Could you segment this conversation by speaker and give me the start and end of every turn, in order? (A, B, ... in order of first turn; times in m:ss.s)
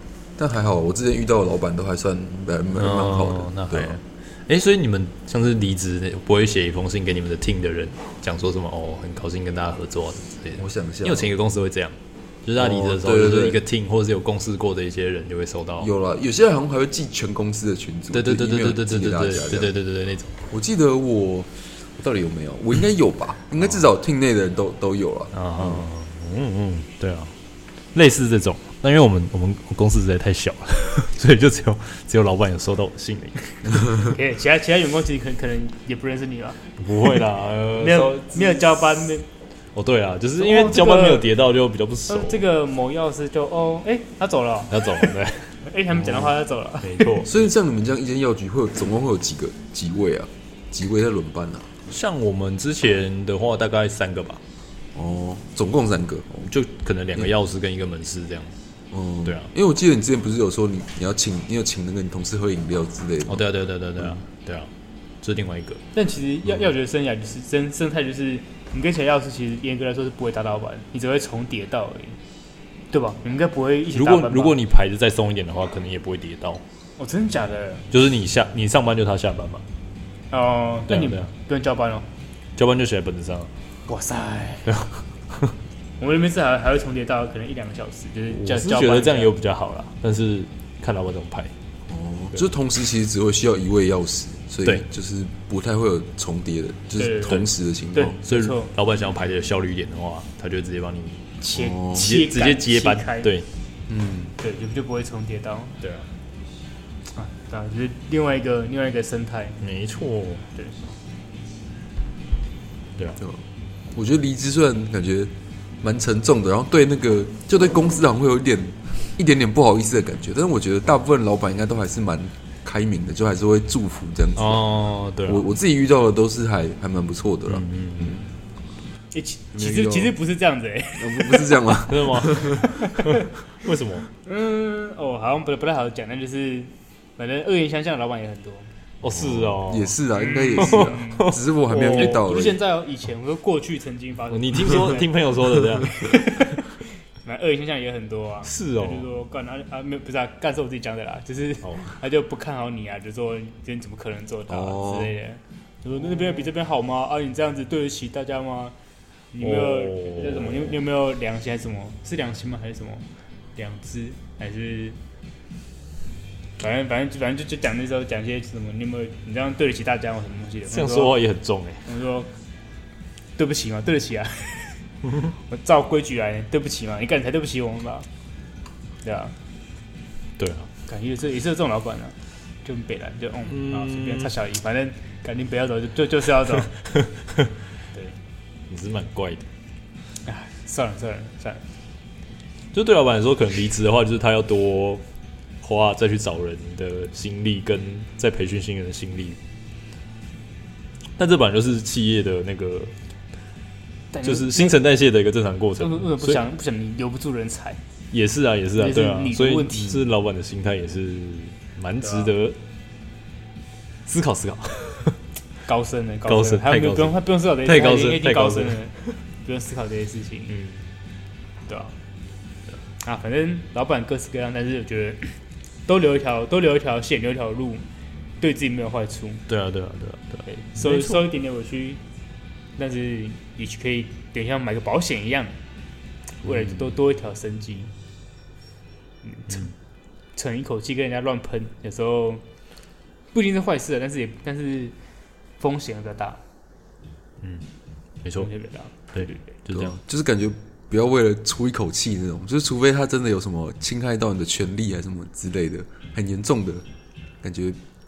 0:00.4-0:04.0 A
0:02.8-0:15.9 B
0:10.6-0:11.3 A
0:12.6-0:13.6 A
0:15.8-0:19.7 A
0:18.1-0:20.4 B
0:20.5-0:25.8 A
0:25.3-0:27.3 B
0:27.9-0:33.5 B
0:33.8-0:36.6 C
0:36.8-0:39.1 B
0:37.8-0:39.2 C
0:39.7-0:42.4 B
0:40.4-0:41.3 C
0:42.1-0:47.2 C
0:44.7-0:47.3 B
0:47.2-0:51.6 A
0:51.9-0:54.4 B
0:54.9-0:56.5 A
0:56.4-0:58.5 B
0:58.9-1:03.4 A
0:59.2-0:59.5 B
1:03.3-1:04.7 B
1:05.2-1:05.8 B
1:05.9-1:12.2 C
1:12.9-1:14.6 C
1:13.9-1:16.6 B
1:17.0-1:17.8 C
1:17.9-1:19.6 B
1:20.3-1:22.1 C
1:20.9-1:21.3 B
1:22.6-1:23.5 B
1:23.9-1:24.7 C
1:24.7-1:25.5 B
1:26.0-1:29.3 C
1:28.3-1:31.5 B
1:31.9-1:38.2 A
1:37.0-1:38.7 C
1:38.2-1:41.4 B
1:41.4-1:43.3 C
1:41.5-1:42.1 A
1:41.9-1:43.5 B
1:43.9-1:44.3 A
1:44.4-1:45.8 C
1:45.8-1:46.1 B
1:47.1-1:49.6 C
1:49.6-1:50.4 B
1:50.5-1:50.8 C
1:53.9-1:55.3 A
1:55.8-2:04.6 A
2:04.4-2:05.5 B
2:05.2-2:08.3 A
2:07.5-2:08.2 B
2:09.1-2:11.5 C
2:09.5-2:10.1 A
2:11.0-2:12.8 A
2:11.8-2:14.1 B
2:12.5-2:13.1 C
2:14.2-2:18.7 C
2:19.0-2:20.0 B
2:19.1-2:22.6 A
2:20.1-2:21.3 C
2:20.6-2:22.4 B
2:21.8-2:38.7 C
2:24.3-2:26.4 B
2:28.4-2:29.1 B
2:31.6-2:32.0 B
2:34.5-2:35.1 A
2:39.3-2:45.0 C
2:39.4-2:40.8 B
2:46.6-2:51.2 C
2:50.7-2:51.8 B
2:51.8-2:52.3 C
2:53.4-2:54.8 C
2:55.3-2:58.1 C
2:59.0-2:59.3 C
3:00.4-3:00.7 B
3:00.8-3:06.8 C
3:03.5-3:04.3 B
3:06.7-3:07.5 B
3:08.7-3:09.4 B
3:10.2-3:11.6 C
3:12.7-3:15.0 B
3:15.6-3:19.4 B
3:21.2-3:22.9 B
3:24.1-3:24.8 C
3:24.2-3:26.4 B
3:25.8-3:27.8 C
3:28.1-3:32.6 B
3:28.7-3:30.1 C
3:32.0-3:32.3 C
3:34.0-3:35.2 B
3:35.6-3:40.5 C
3:36.3-3:39.1 B
3:40.5-3:40.9 B
3:41.7-3:42.0 C
3:43.0-3:47.8 C
3:48.4-3:49.4 C
3:49.5-3:51.2 B
3:50.4-3:52.0 C
3:52.8-3:55.5 C
3:56.4-3:57.9 C
3:59.2-3:59.7 C
4:00.3-4:02.4 C
4:03.3-4:04.9 C
4:05.6-4:06.4 C
4:07.4-4:07.7 B
4:08.2-4:08.5 B
4:08.3-4:09.5 C
4:09.1-4:10.0 B
4:09.7-4:16.8 A
4:17.4-4:17.8 A